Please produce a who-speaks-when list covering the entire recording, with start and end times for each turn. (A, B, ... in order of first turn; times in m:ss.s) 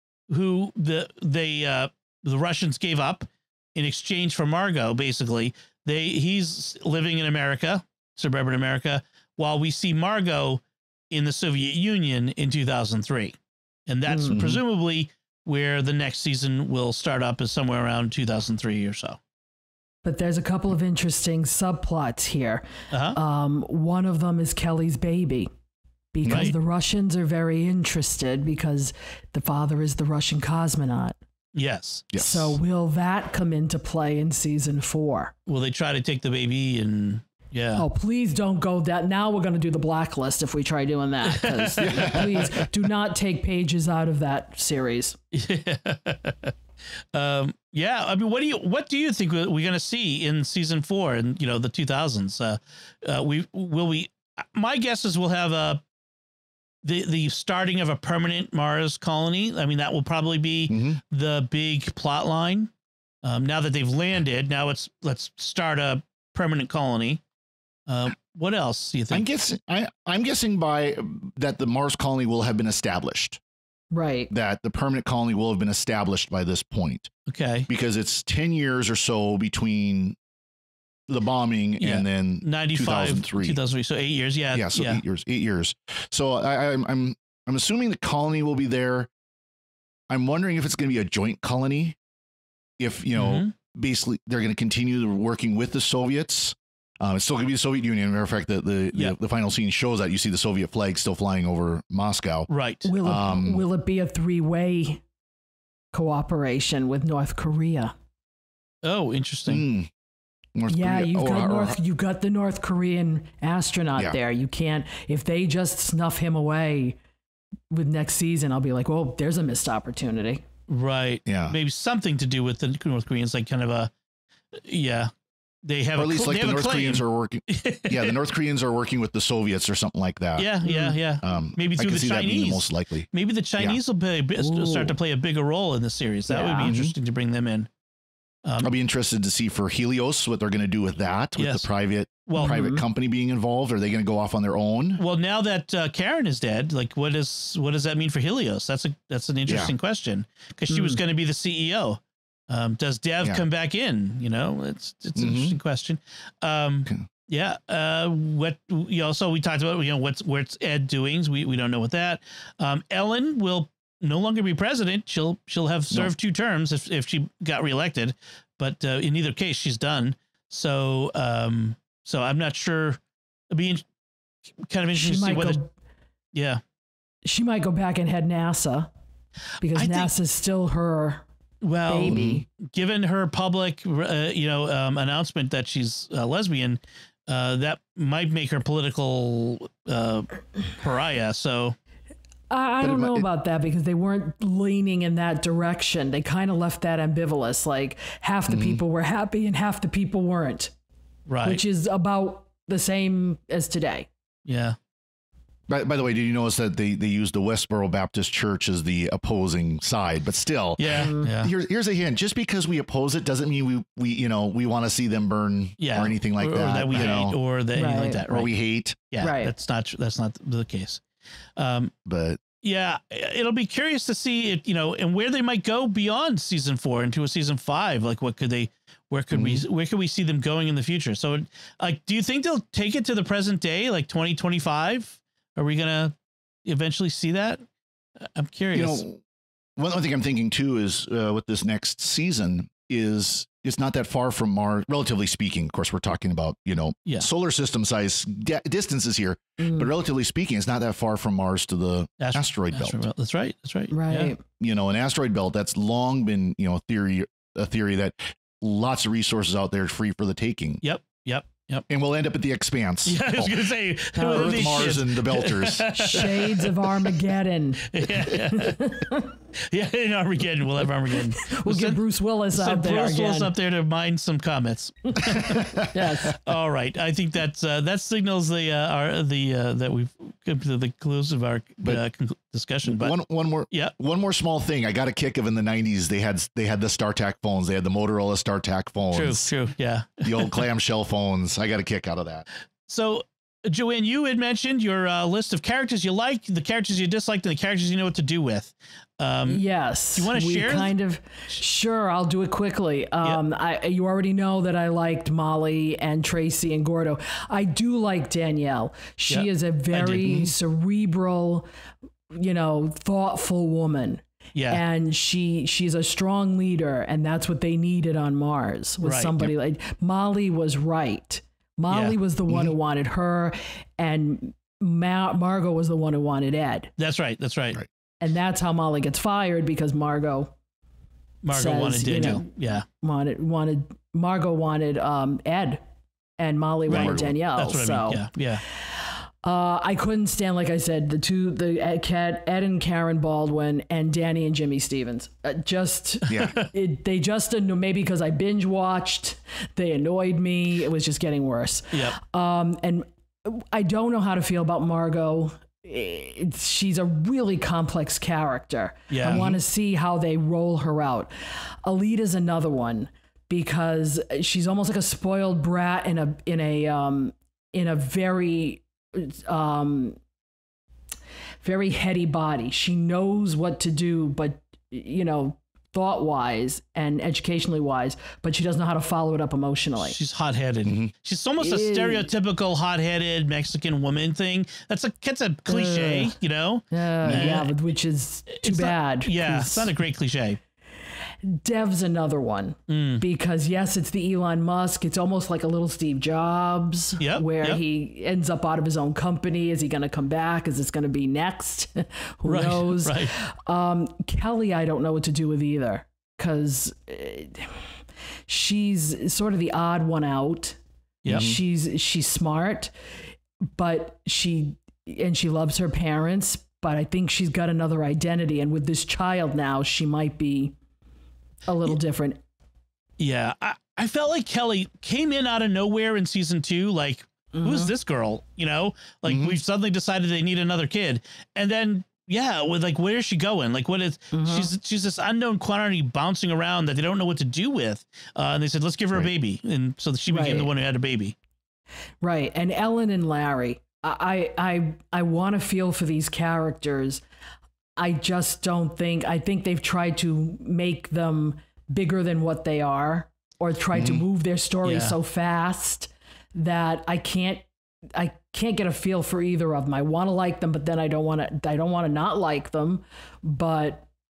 0:00.3-0:19.2 A
0:14.1-0:14.4 B
0:14.3-0:14.6 C
0:20.0-0:25.5 B
0:22.9-0:23.2 A
0:26.1-0:31.2 B
0:26.2-0:26.5 C
0:26.2-0:26.5 A
0:31.5-0:32.1 A
0:32.1-0:32.6 C
0:32.2-0:35.3 B
0:35.5-0:37.8 A
0:37.8-0:45.2 B
0:41.2-0:42.5 A
0:41.8-0:42.5 C
0:45.3-0:46.5 A
0:47.1-0:55.8 A
0:56.8-1:02.7 A
1:00.7-1:01.0 C
1:03.2-1:07.2 A
1:07.9-1:09.2 A
1:09.1-1:13.4 C
1:13.9-1:14.3 B
1:14.3-1:17.1 C
1:17.3-1:17.7 A
1:17.7-1:20.2 C
1:21.1-1:23.6 C
1:21.8-1:25.0 A
1:24.5-1:29.1 C
1:30.1-1:32.0 C
1:32.8-1:42.5 C
1:33.1-1:33.5 A
1:42.5-1:42.9 A
1:42.8-1:45.0 B
1:43.0-1:43.6 C
1:45.9-1:47.9 B
1:48.8-1:49.6 A
1:49.5-1:49.9 C
1:50.6-1:51.8 C
1:50.7-1:57.0 B
1:57.7-2:00.4 B
2:00.7-2:03.9 A
2:01.2-2:01.6 C
2:04.5-2:05.1 A
2:05.6-2:08.2 A
2:06.0-2:10.5 C
2:10.4-2:17.7 A
2:10.6-2:11.0 B
2:11.2-2:13.1 C
2:14.4-2:14.9 B
2:16.3-2:16.8 B
2:16.6-2:16.9 C
2:18.4-2:18.7 A
2:18.6-2:25.0 C
2:21.4-2:21.7 A
2:22.3-2:22.7 A
2:22.4-2:22.8 B
2:25.0-2:53.8 A
2:29.4-2:29.7 C
2:30.7-2:31.0 B
2:35.2-2:35.6 C
2:54.6-2:55.6 A
2:54.9-2:55.7 B
2:56.3-2:56.6 A
2:57.2-2:58.9 B
2:59.6-3:01.2 B
2:59.7-3:00.1 A
3:01.6-3:11.8 A
3:01.9-3:02.4 B
3:02.1-3:02.4 C
3:12.5-3:20.7 B
3:12.8-3:13.2 C
3:18.5-3:18.8 C
3:21.3-3:21.6 A
3:21.4-3:24.1 B
3:24.4-3:24.8 A
3:25.7-3:37.4 C
3:30.8-3:31.5 A
3:31.0-3:31.3 B
3:35.8-3:38.5 A
3:37.7-3:38.2 B
3:38.3-3:39.0 C
3:39.1-3:41.0 A
3:39.2-3:39.5 B
3:41.6-3:41.9 A
3:42.0-3:42.4 C
3:42.6-3:57.6 A
3:49.3-3:49.6 C
3:58.3-3:59.0 A
3:58.7-3:59.2 C
3:59.8-4:13.0 C
4:09.6-4:09.9 B
4:12.2-4:14.3 A
4:13.9-4:14.4 B
4:14.6-4:20.8 C
4:20.8-4:21.9 A
4:21.9-4:23.6 C
4:23.0-4:26.8 A
4:24.2-4:25.0 B
4:24.3-4:26.2 C
4:25.9-4:29.3 B
4:27.9-4:29.1 A
4:29.7-4:32.0 A
4:31.4-4:33.5 B
4:32.5-4:43.1 A
4:35.2-4:35.9 C
4:35.3-4:36.4 B
4:42.8-4:49.5 C
4:49.1-4:50.6 A
4:50.2-4:52.4 C
4:52.9-4:59.6 A
4:59.5-5:11.7 B
5:00.1-5:00.9 A
5:09.3-5:10.3 A
5:10.2-5:10.5 C
5:12.3-5:26.9 B
5:14.5-5:14.8 A
5:19.0-5:19.4 A
5:21.9-5:22.2 A
5:27.0-5:27.8 A
5:28.2-5:30.5 B
5:31.4-5:32.8 A
5:31.5-5:35.8 B
5:36.4-5:38.2 B
5:36.9-5:38.6 A
5:36.9-5:37.3 C
5:38.9-6:01.3 B
5:46.2-5:46.7 A
5:46.3-5:46.5 C
5:51.9-5:52.2 A
5:59.1-5:59.4 A
5:59.2-5:59.6 C
6:01.8-6:10.2 B
6:11.6-6:20.2 B
6:20.0-6:27.7 A
6:20.8-6:21.1 C
6:21.6-6:22.3 B
6:25.7-6:26.4 B
6:26.9-6:29.9 B
6:27.2-6:27.5 C
6:28.5-6:30.6 A
6:31.4-6:47.9 B
6:32.9-6:33.2 A
6:37.2-6:37.8 A
6:42.4-6:43.3 A
6:48.5-6:52.9 B
6:51.2-6:51.5 A
6:51.3-6:51.6 C
6:53.7-7:00.7 B
7:01.7-7:02.4 B
7:03.2-7:21.4 A
7:07.5-7:07.9 B
7:09.2-7:09.6 C
7:14.3-7:14.7 B
7:20.3-7:20.7 B
7:22.2-7:27.2 B
7:28.0-7:44.1 B
7:33.9-7:34.2 C
7:34.8-7:35.2 A